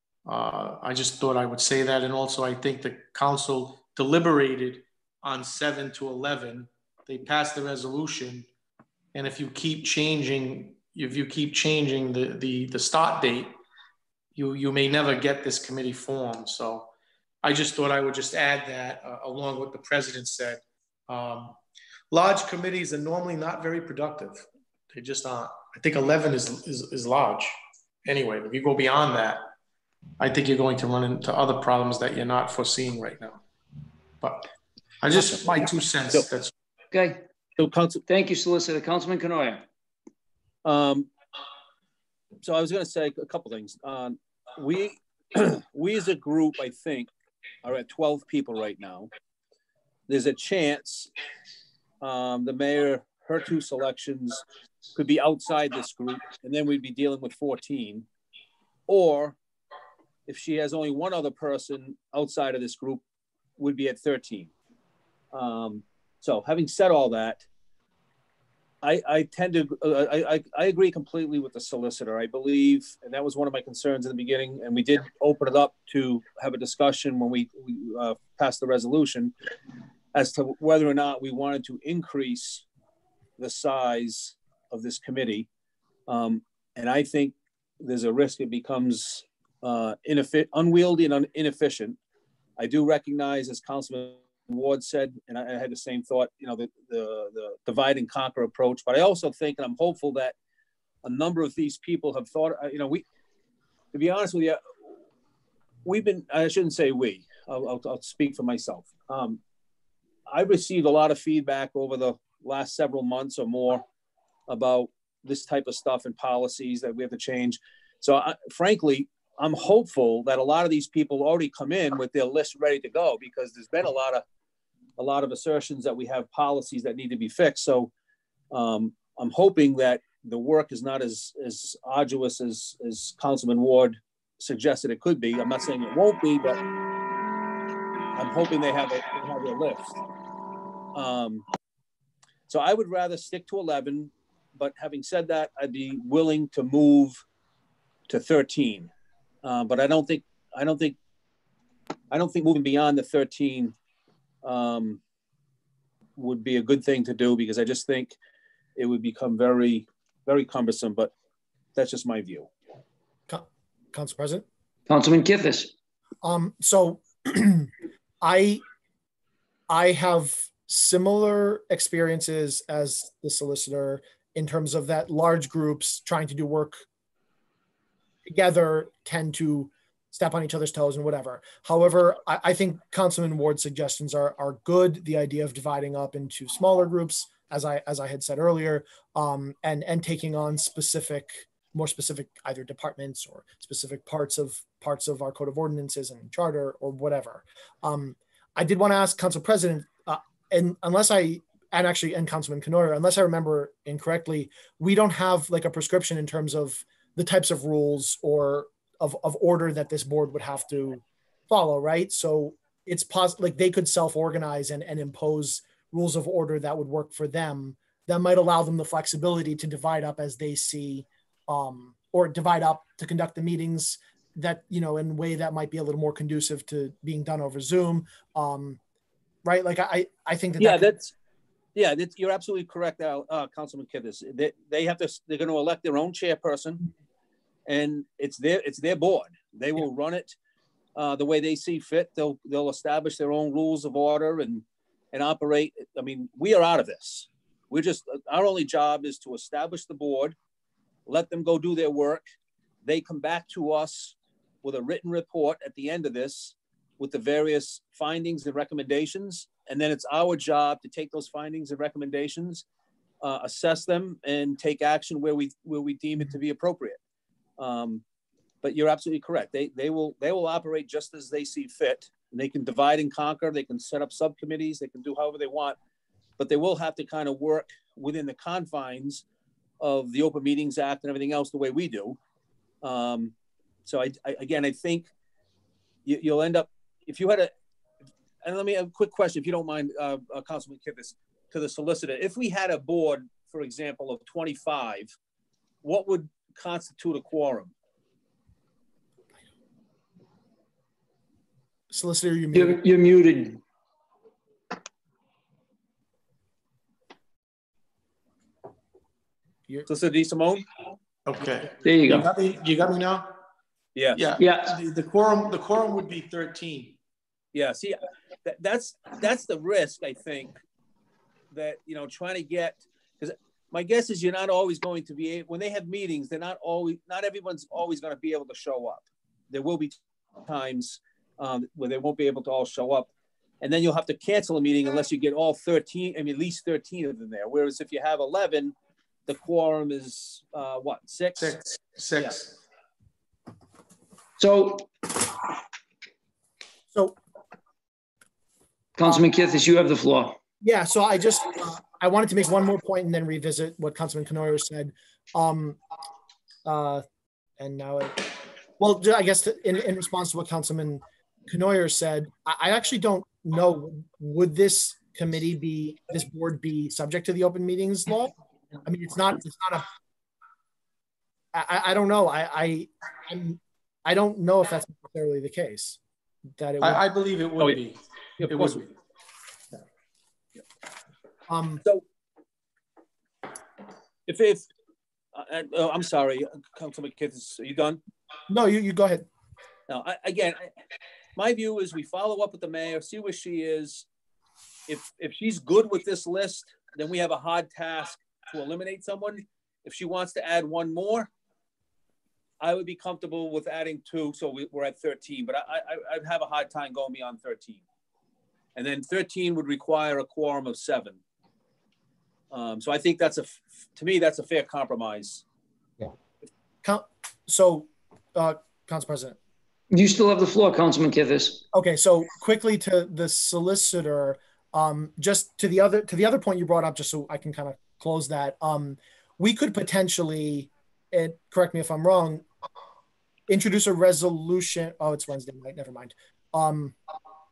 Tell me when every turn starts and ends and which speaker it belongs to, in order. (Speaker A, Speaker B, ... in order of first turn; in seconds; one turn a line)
Speaker A: 0.2-8.5
Speaker A: 9.1-13.5
Speaker A: 14.3-16.9
Speaker A: 17.4-21.6
Speaker A: 22.1-27.5
Speaker A: 28.0-29.5
Speaker A: 30.2-33.4
Speaker A: 34.2-34.5
Speaker A: 35.0-36.5
Speaker B: 36.9-37.2
Speaker C: 37.6-38.0
Speaker B: 38.1-39.6
Speaker C: 40.6-41.1
Speaker C: 42.4-47.1
Speaker C: 47.6-49.1
Speaker C: 50.1-51.1
Speaker C: 52.0-54.4
Speaker C: 54.9-58.1
Speaker C: 58.9-59.4
Speaker C: 60.3-63.0
Speaker C: 63.6-64.5
Speaker C: 65.3-67.4
Speaker C: 68.8-79.3
Speaker C: 80.1-82.6
Speaker C: 83.4-85.5
Speaker C: 86.1-92.0
Speaker C: 92.6-100.3
Speaker C: 101.0-103.0
Speaker C: 103.9-104.6
Speaker C: 105.8-109.4
Speaker C: 110.3-113.8
Speaker C: 114.5-124.2
Speaker C: 125.0-127.9
Speaker C: 128.5-136.6
Speaker C: 138.2-140.0
Speaker C: 140.9-141.4
Speaker C: 142.5-147.2
Speaker C: 148.1-148.9
Speaker C: 149.4-151.0
Speaker C: 152.1-153.7
Speaker C: 154.4-155.0
Speaker C: 156.2-158.2
Speaker C: 158.8-161.1
Speaker C: 161.7-162.5
Speaker D: 163.3-164.4
Speaker B: 164.9-165.7
Speaker D: 166.2-168.6
Speaker D: 169.7-176.8
Speaker D: 178.3-228.8
Speaker D: 229.4-230.9
Speaker C: 230.6-231.1
Speaker C: 231.7-236.9
Speaker C: 237.7-240.3
Speaker C: 240.9-250.3
Speaker C: 251.1-252.2
Speaker C: 252.8-262.6
Speaker C: 263.2-267.0
Speaker C: 267.6-268.0
Speaker C: 268.6-275.8
Speaker C: 276.4-279.2
Speaker C: 279.8-282.2
Speaker C: 282.8-283.3
Speaker C: 283.8-285.1
Speaker C: 286.1-287.5
Speaker C: 288.4-295.1
Speaker C: 295.8-297.7
Speaker D: 301.9-302.8
Speaker B: 302.5-303.6
Speaker C: 309.9-310.6
Speaker A: 311.2-313.4
Speaker B: 311.8-312.3
Speaker C: 313.9-314.3
Speaker A: 314.1-317.0
Speaker B: 314.4-314.8
Speaker C: 317.5-320.6
Speaker C: 321.5-338.7
Speaker C: 339.2-341.6
Speaker A: 341.4-342.6
Speaker B: 344.4-344.9
Speaker B: 349.0-350.4
Speaker D: 350.6-355.8
Speaker D: 356.6-357.0
Speaker D: 357.6-369.9
Speaker D: 371.5-376.0
Speaker D: 376.6-377.0
Speaker A: 376.8-378.9
Speaker C: 378.4-378.8
Speaker D: 381.5-381.8
Speaker C: 384.3-384.6
Speaker C: 385.3-388.0
Speaker D: 388.5-389.3
Speaker C: 389.9-390.7
Speaker C: 391.4-394.1
Speaker C: 394.9-401.3
Speaker C: 402.6-407.8
Speaker C: 408.7-411.2
Speaker C: 412.5-415.4
Speaker D: 416.8-419.4
Speaker B: 419.9-421.6
Speaker D: 421.7-432.4
Speaker D: 433.5-436.9